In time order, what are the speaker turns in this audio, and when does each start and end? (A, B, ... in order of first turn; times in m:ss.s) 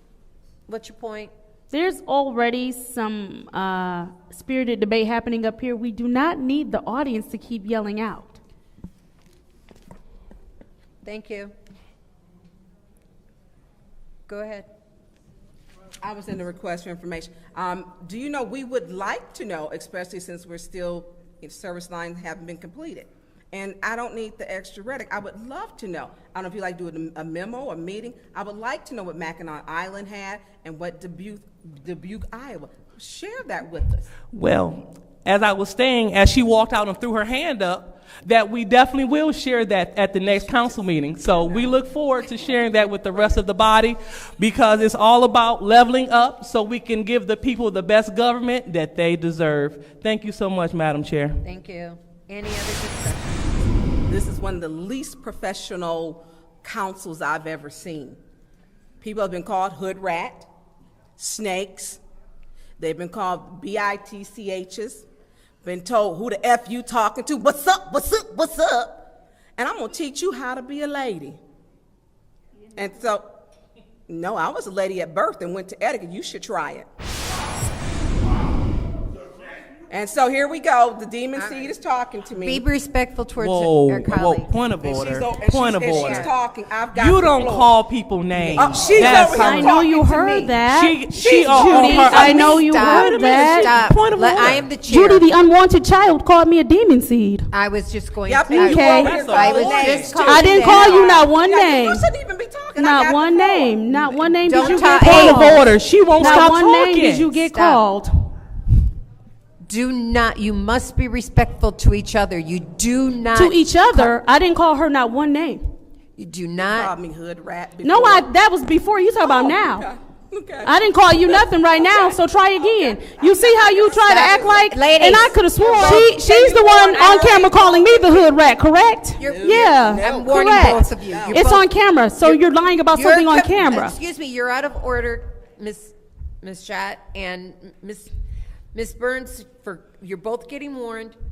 0:00.7-0:01.3 A
0:01.7-0:08.4 B
0:11.0-0:11.5 A
0:14.3-0:14.7 A
0:16.0-0:34.1 C
0:34.3-0:51.4 D
0:51.4-0:53.7 A
0:54.1-0:58.2 C
0:59.0-1:00.5 C
1:01.2-1:02.0 C
1:02.8-1:05.1 C
1:05.6-1:09.0 C
1:09.6-1:11.4 C
1:12.8-1:13.3 C
1:14.1-1:16.9 C
1:19.9-1:22.7 C
1:21.4-1:21.7 A
1:22.4-1:24.6 A
1:23.4-1:26.3 D
1:24.8-1:27.8 C
1:25.9-1:26.3 A
1:26.9-1:29.8 D
1:28.4-1:30.5 C
1:28.9-1:33.7 B
1:30.7-1:34.7 D
1:31.1-1:32.4 C
1:32.3-1:35.3 A
1:34.8-1:37.5 B
1:37.5-1:41.1 A
1:38.3-1:45.0 C
1:38.5-1:39.2 B
1:38.7-1:40.2 D
1:40.2-1:42.1 B
1:42.8-1:48.3 B
1:44.4-1:46.5 A
1:44.8-1:47.3 D
1:47.3-1:47.8 A
1:49.6-1:54.1 A
1:53.3-1:55.7 B
1:56.2-1:56.9 A
1:56.6-1:58.3 C
1:57.8-1:59.9 B
1:59.2-2:08.4 C
2:00.6-2:14.0 B
2:04.0-2:07.2 A
2:09.2-2:11.5 C
2:09.2-2:11.6 A
2:13.0-2:18.1 A
2:18.7-2:21.2 A